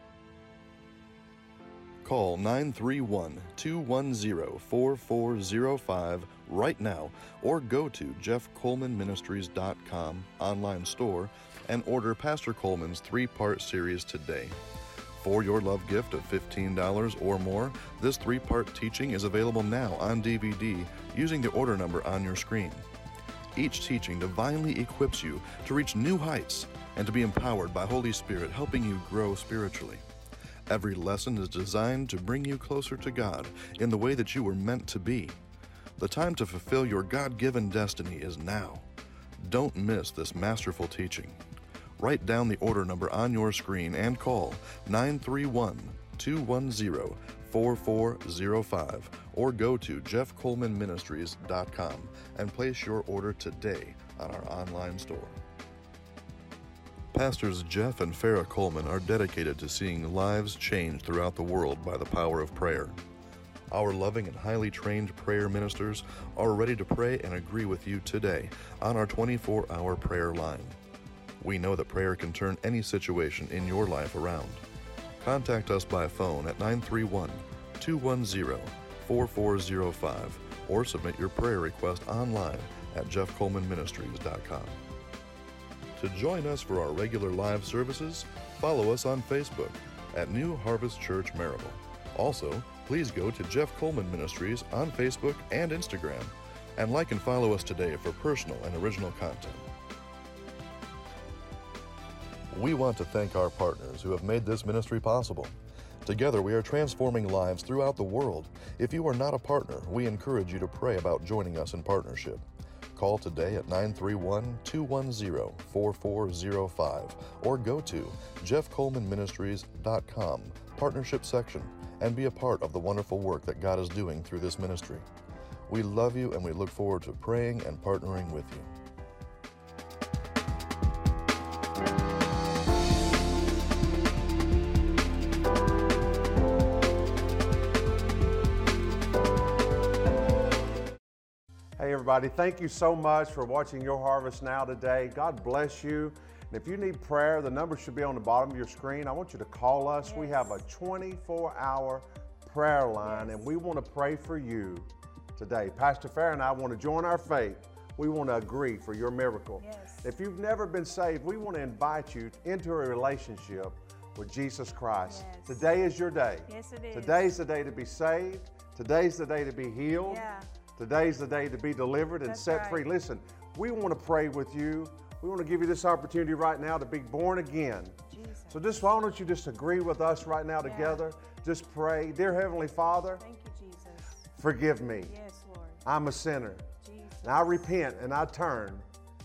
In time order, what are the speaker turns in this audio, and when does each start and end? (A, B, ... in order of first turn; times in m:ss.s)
0:02.0-0:14.6 A
0:15.1-0:22.8 A
0:23.5-0:30.0 A
0:30.7-0:35.4 A
0:36.0-0:38.8 A
0:39.4-0:41.4 A
0:42.0-0:55.4 A
0:57.1-1:02.9 A
1:03.7-1:10.8 A
1:11.4-1:14.6 A
1:15.2-1:24.8 A
1:26.0-1:39.6 A
1:42.5-1:45.5 A
1:46.0-1:52.4 A
1:52.9-2:05.0 A
2:05.7-2:08.7 A
2:21.8-2:50.2 B
2:30.0-2:30.5 C
2:33.0-2:33.4 C
2:39.6-2:40.0 C
2:45.1-2:45.6 C
2:46.5-2:47.3 C
2:50.0-2:50.5 C
2:50.8-2:58.0 B
2:52.2-2:52.8 C
2:58.1-2:58.6 C
2:58.5-3:03.2 B
3:00.6-3:01.0 C
3:03.2-3:04.3 C
3:04.4-3:05.1 B
3:05.1-3:05.8 C
3:05.8-3:06.7 B
3:06.8-3:07.7 C
3:07.2-3:08.8 B